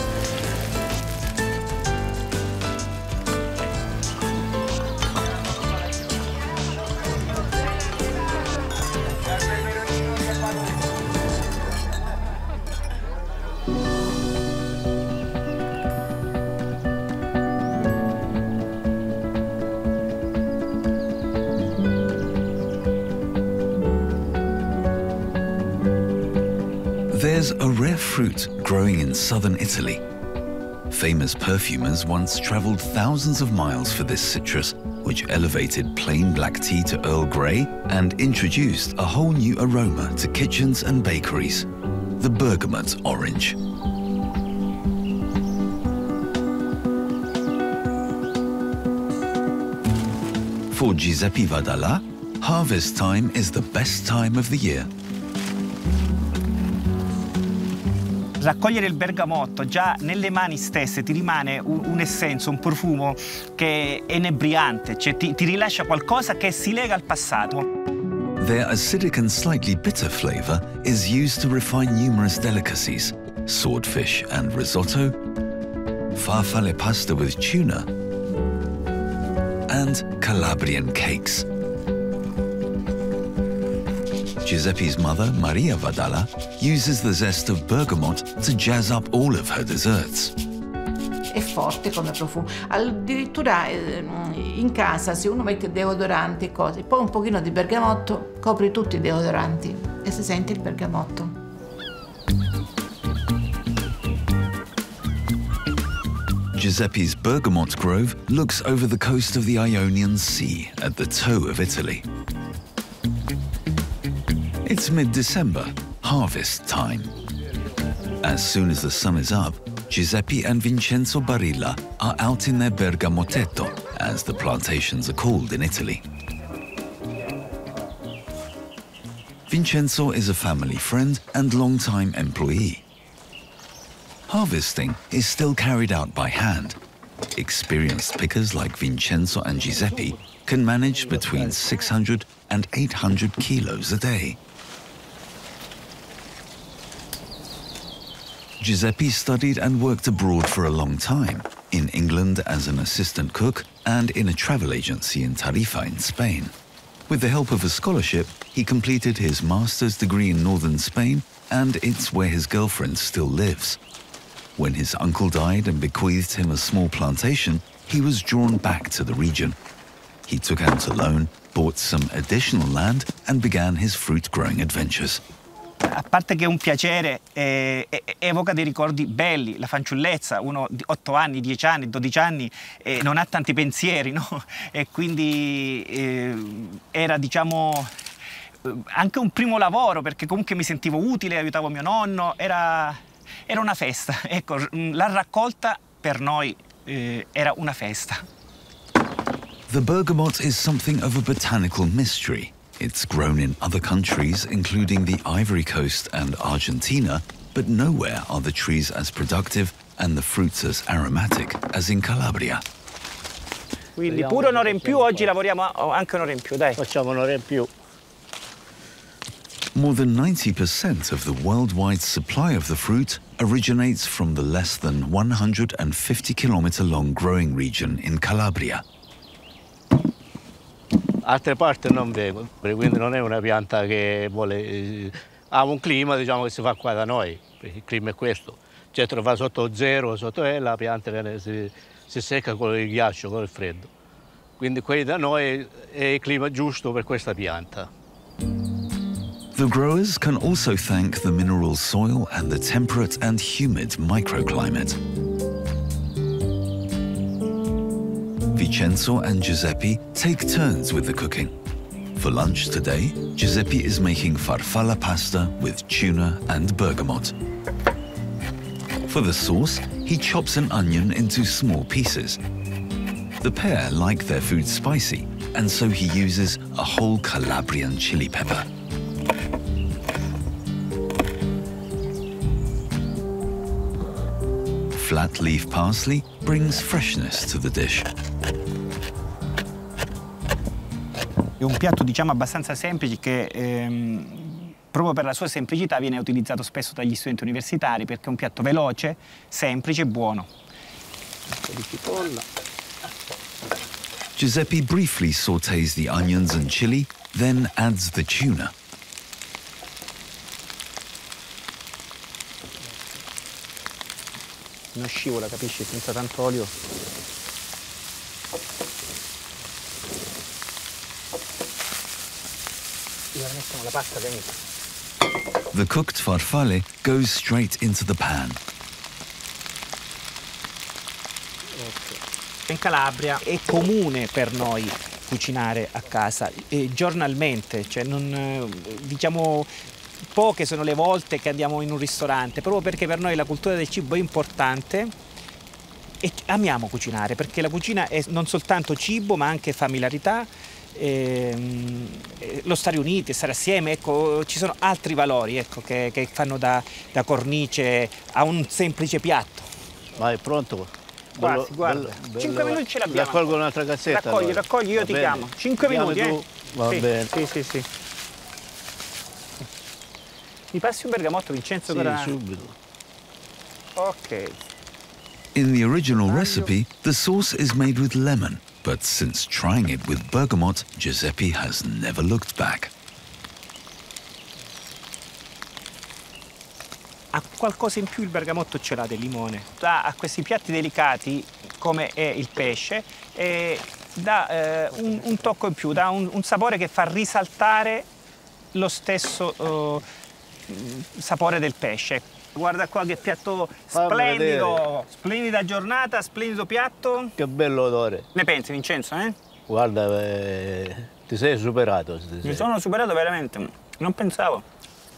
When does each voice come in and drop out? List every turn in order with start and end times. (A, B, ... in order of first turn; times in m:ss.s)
0:27.1-0:30.0 A
0:30.9-0:41.7 A
0:42.2-0:43.6 A
0:50.7-0:54.9 A
0:58.4-1:07.7 B
1:08.4-1:15.2 A
1:16.2-1:17.9 A
1:19.7-1:21.5 A
1:24.4-1:30.3 A
1:31.3-1:41.4 C
1:46.5-1:52.1 A
1:54.6-1:57.1 A
1:58.2-2:06.0 A
2:09.5-2:12.8 A
2:14.3-2:16.8 A
2:17.4-2:24.4 A
2:21.1-2:21.5 D
2:28.6-2:36.5 A
2:37.1-2:43.8 A
2:44.6-2:49.6 A
2:50.3-2:55.2 A
2:55.8-3:07.9 B
3:08.6-3:18.2 B
3:19.7-3:32.6 A
3:34.0-3:36.8 B
3:34.1-3:35.3 D
3:36.8-3:37.7 D
3:39.7-3:48.8 A
3:51.2-4:03.9 D
4:04.6-4:07.9 D
4:09.5-4:15.0 A
4:18.5-4:21.5 A
4:22.2-4:27.3 A
4:29.1-4:32.4 A
4:33.4-4:38.7 A
4:44.9-4:48.1 A
4:51.6-5:00.5 B
5:01.6-5:02.4 B
5:04.4-5:08.7 A
5:14.9-5:16.7 B
5:23.3-5:24.5 B
5:25.7-5:28.6 A
5:31.8-5:39.7 B
5:40.4-5:45.1 B
5:46.2-5:59.7 B
6:00.2-6:07.3 D
6:01.4-6:07.9 B
6:10.7-6:12.4 B
6:11.9-6:12.8 D
6:14.0-6:14.6 B
6:15.5-6:22.9 A
6:16.3-6:16.7 B
6:27.3-6:38.1 B
6:38.7-6:40.0 B
6:40.7-6:47.3 B
6:43.9-6:44.8 D
6:47.4-6:48.3 D
6:48.4-6:49.4 B
6:49.7-6:52.6 D
6:52.4-6:54.6 B